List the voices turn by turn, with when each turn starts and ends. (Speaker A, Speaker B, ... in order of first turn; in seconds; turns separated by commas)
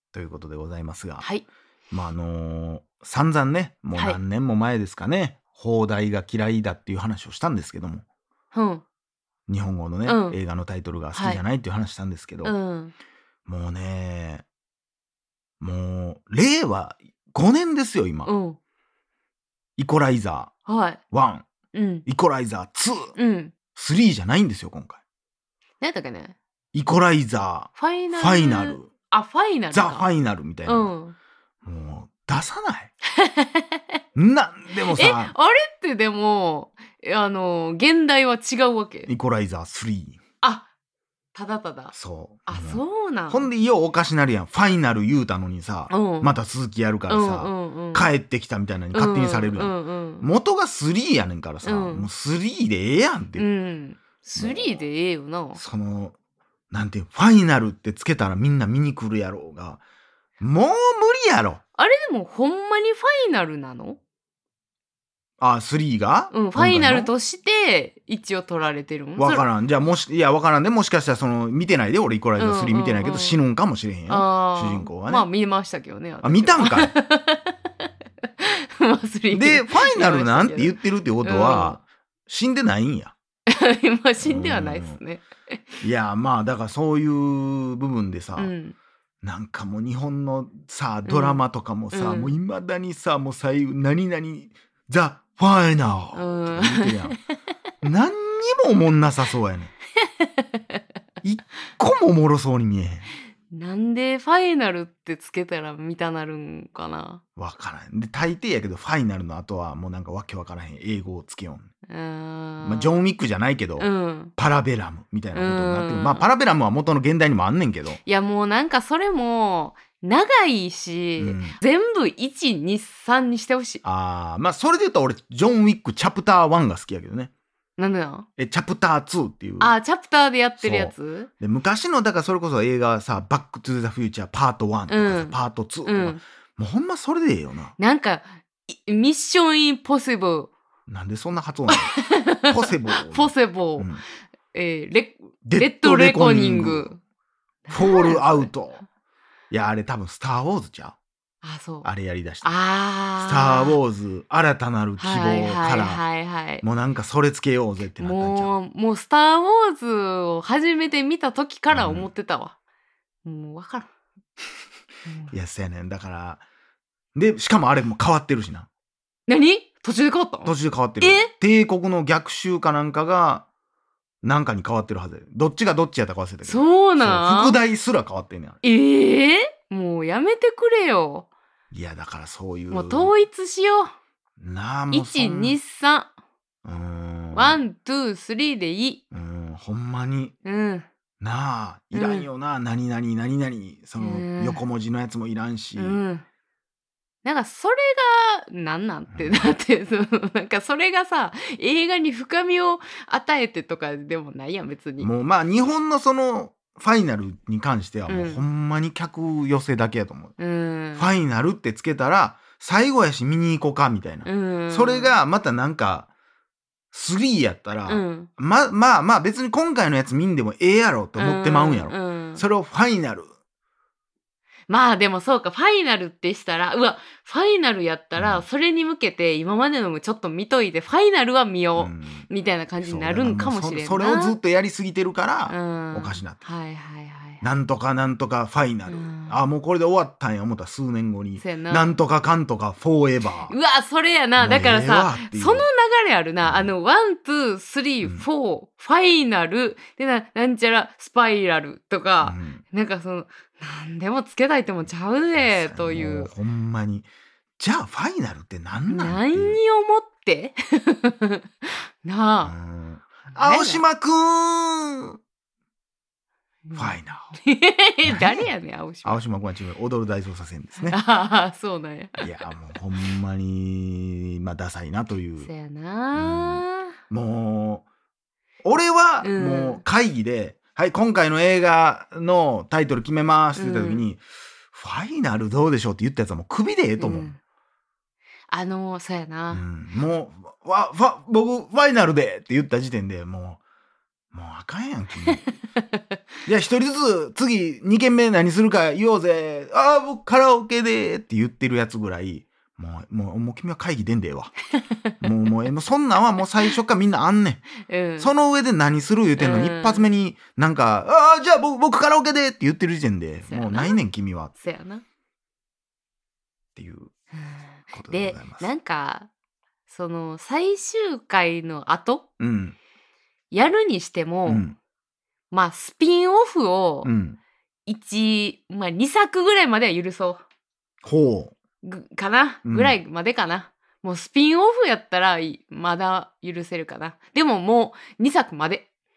Speaker A: 0.1-1.2, Speaker A: 1.9-8.0, Speaker B: 3.9-4.2, Speaker B: 8.5-8.8, Speaker A: 9.5-12.5, Speaker B: 10.0-10.4, Speaker B: 11.1-11.4, Speaker B: 12.4-12.9, Speaker A: 13.4-14.4, Speaker A: 15.6-18.3, Speaker B: 18.2-18.6, Speaker A: 19.8-20.5, Speaker B: 20.7-21.0, Speaker A: 21.1-21.4, Speaker B: 21.7-22.0, Speaker A: 22.1-23.1, Speaker B: 23.1-23.5, Speaker A: 23.7-25.0, Speaker B: 25.8-26.4, Speaker A: 26.7-28.9, Speaker B: 27.8-30.1, Speaker A: 29.7-30.9, Speaker B: 30.6-31.1, Speaker A: 31.6-32.9, Speaker B: 33.2-34.0, Speaker A: 34.1-35.3, Speaker B: 34.9-39.1, Speaker A: 39.1-40.2, Speaker B: 40.4-40.7, Speaker B: 41.3-41.9, Speaker A: 41.9-53.5, Speaker B: 42.5-43.5, Speaker B: 45.9-46.3, Speaker B: 47.1-48.1, Speaker B: 48.9-50.2, Speaker B: 51.6-52.1, Speaker B: 53.4-55.6, Speaker A: 54.4-54.8, Speaker A: 55.5-56.1, Speaker A: 56.7-59.8, Speaker A: 60.4-61.6, Speaker B: 61.8-64.0, Speaker A: 65.4-67.1, Speaker B: 66.3-69.5, Speaker A: 69.2-75.3, Speaker B: 72.4-73.4, Speaker B: 74.1-77.5, Speaker A: 76.2-76.9, Speaker B: 78.4-81.8, Speaker A: 79.3-83.1, Speaker B: 83.5-85.6, Speaker A: 84.2-85.0, Speaker A: 85.8-88.5, Speaker B: 88.4-88.8, Speaker A: 89.2-97.2, Speaker B: 91.0-91.4, Speaker B: 91.9-92.3, Speaker B: 96.1-97.1, Speaker A: 97.8-99.7, Speaker B: 100.0-100.8, Speaker A: 101.2-103.1, Speaker B: 103.5-107.2, Speaker A: 107.4-111.7, Speaker B: 111.9-113.0, Speaker A: 112.6-118.0, Speaker B: 113.8-114.3, Speaker B: 115.3-116.3, Speaker B: 118.0-123.8, Speaker A: 121.2-121.6, Speaker A: 123.8-127.3, Speaker B: 127.8-128.2, Speaker A: 128.4-129.8, Speaker B: 129.6-131.3, Speaker A: 130.6-137.7, Speaker B: 134.9-136.2, Speaker B: 137.8-140.5, Speaker A: 140.9-141.9, Speaker B: 141.7-143.9, Speaker A: 142.5-144.0, Speaker B: 144.5-147.0, Speaker A: 145.4-146.9, Speaker B: 147.7-148.5, Speaker A: 147.7-148.8, Speaker A: 149.5-151.0, Speaker B: 151.4-151.9, Speaker A: 151.8-152.5, Speaker B: 152.4-153.8, Speaker A: 153.2-156.0, Speaker B: 155.0-156.6, Speaker A: 156.6-158.5, Speaker B: 158.0-162.5, Speaker A: 161.7-162.1, Speaker B: 163.2-163.9, Speaker B: 165.1-165.3, Speaker A: 165.3-166.4, Speaker A: 167.1-168.7, Speaker B: 169.3-171.3, Speaker A: 170.4-173.5, Speaker A: 174.2-178.6, Speaker B: 176.4-177.6, Speaker B: 178.6-181.3, Speaker A: 181.7-183.1, Speaker B: 182.7-183.9, Speaker A: 184.4-185.6, Speaker B: 184.9-186.1, Speaker A: 186.6-187.6, Speaker B: 187.3-189.0, Speaker A: 189.1-190.3, Speaker B: 190.4-190.8, Speaker A: 191.2-196.0, Speaker B: 191.9-192.3, Speaker B: 194.0-194.6, Speaker B: 195.8-196.2, Speaker B: 197.2-205.1, Speaker A: 199.1-199.5, Speaker A: 205.0-210.3, Speaker B: 208.1-208.4, Speaker B: 210.4-211.1, Speaker A: 210.9-216.1, Speaker B: 214.2-215.2, Speaker A: 216.9-223.3, Speaker B: 217.9-218.3, Speaker B: 221.2-222.4, Speaker B: 224.7-234.3, Speaker A: 228.2-228.4, Speaker A: 231.8-232.3, Speaker A: 232.8-236.4, Speaker B: 235.5-237.4, Speaker A: 237.4-243.6, Speaker B: 238.9-239.4, Speaker B: 241.4-242.0, Speaker B: 243.5-256.3, Speaker A: 244.4-245.7, Speaker A: 246.4-246.7, Speaker A: 248.0-248.3, Speaker A: 252.2-252.6, Speaker A: 255.3-259.6, Speaker B: 258.9-262.5, Speaker A: 262.4-265.2, Speaker B: 263.3-263.8, Speaker B: 266.7-269.2, Speaker A: 266.7-267.3, Speaker A: 268.0-268.5, Speaker A: 269.0-271.0, Speaker B: 270.8-272.3, Speaker A: 272.2-275.5, Speaker B: 275.4-276.9, Speaker A: 276.1-277.9, Speaker A: 278.6-287.3, Speaker B: 279.2-279.8, Speaker B: 283.6-284.0, Speaker B: 287.0-287.4, Speaker B: 288.5-289.6, Speaker A: 289.5-293.6, Speaker A: 294.3-295.5, Speaker B: 295.3-296.0, Speaker A: 296.4-304.5, Speaker A: 305.2-307.7, Speaker B: 307.9-308.3, Speaker A: 308.2-314.5, Speaker B: 309.4-310.1, Speaker B: 313.5-314.0, Speaker B: 314.5-315.0, Speaker A: 316.8-317.1, Speaker B: 317.3-319.3, Speaker A: 317.9-318.7, Speaker B: 319.9-322.3, Speaker A: 322.4-322.8, Speaker B: 323.5-324.6, Speaker A: 324.4-324.8, Speaker B: 325.5-327.1, Speaker A: 327.0-327.4, Speaker B: 327.9-330.4, Speaker A: 331.0-331.6, Speaker B: 331.8-338.9, Speaker A: 332.6-332.9